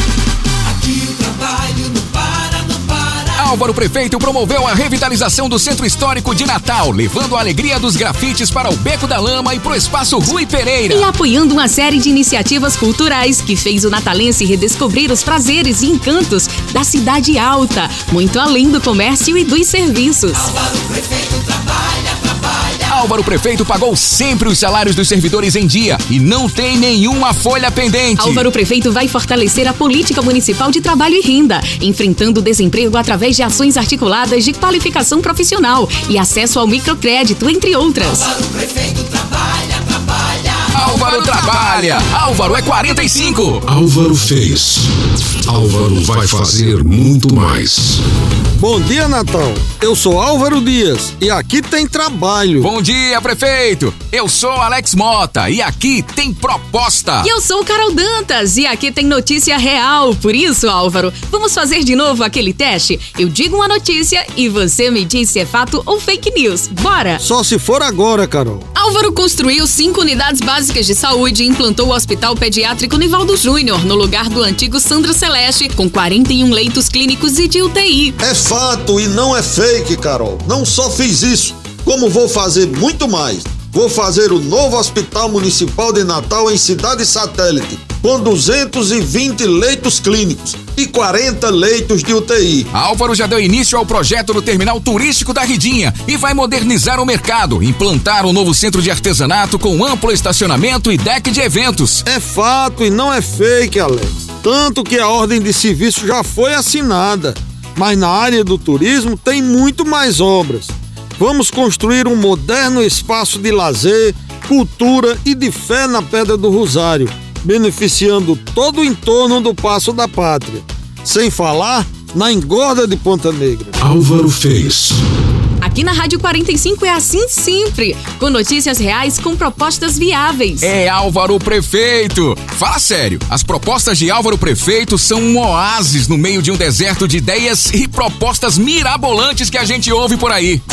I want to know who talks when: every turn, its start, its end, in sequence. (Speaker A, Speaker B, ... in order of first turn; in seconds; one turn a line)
Speaker A: 0.8-3.0
Speaker B: 3.3-11.0
Speaker C: 10.9-20.5
Speaker B: 22.9-28.5
Speaker C: 28.2-38.4
Speaker A: 38.5-39.5
Speaker B: 40.7-43.6
Speaker C: 40.8-41.9
Speaker D: 43.7-44.9
Speaker D: 45.5-48.0
Speaker E: 48.6-52.7
Speaker B: 52.6-57.3
Speaker C: 57.2-67.2
Speaker E: 67.2-68.7
Speaker C: 68.7-78.2
Speaker E: 78.2-92.7
Speaker B: 92.7-102.0
Speaker E: 102.0-123.7
Speaker D: 123.8-125.0
Speaker C: 125.6-130.7
Speaker B: 130.6-140.6